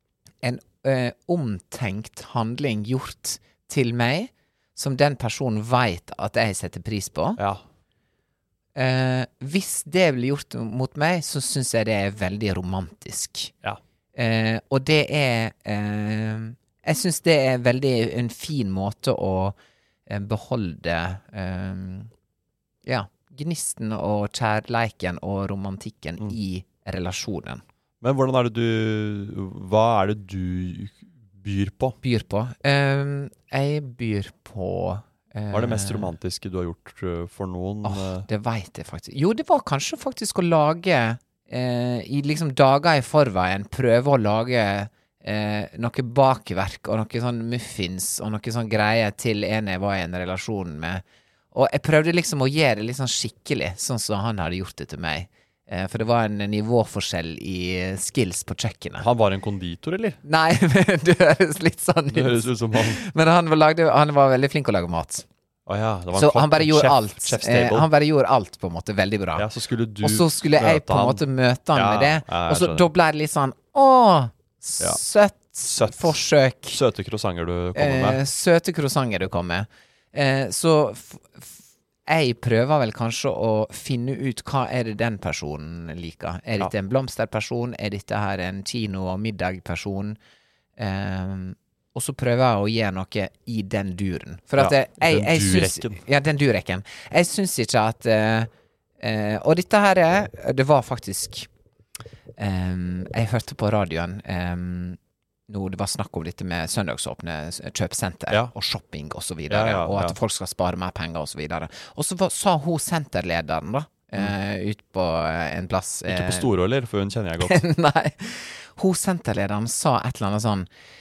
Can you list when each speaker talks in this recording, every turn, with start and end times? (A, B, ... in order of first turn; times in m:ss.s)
0:00.4-0:07.4 A
0:07.4-0:07.6 B
0:08.8-0:13.5 A
0:14.2-0:22.1 A
0:22.9-0:27.6 A
0:28.0-0:32.0 B
0:32.0-0:36.1 A
0:35.5-0:38.3 B
0:37.8-0:59.1 A
0:59.0-1:00.2 B
1:00.2-1:05.2 A
1:02.1-1:03.0 B
1:05.7-1:07.9 B
1:06.1-1:09.5 A
1:09.4-1:12.9 B
1:10.0-1:16.8 A
1:15.6-1:16.2 B
1:16.7-1:18.2 B
1:17.8-1:30.2 A
1:30.8-1:38.5 A
1:34.6-1:36.0 B
1:39.0-1:41.5 A
1:42.4-1:45.0 A
1:45.5-1:56.5 A
1:49.5-1:50.2 B
1:56.1-1:57.6 B
1:57.4-2:00.7 A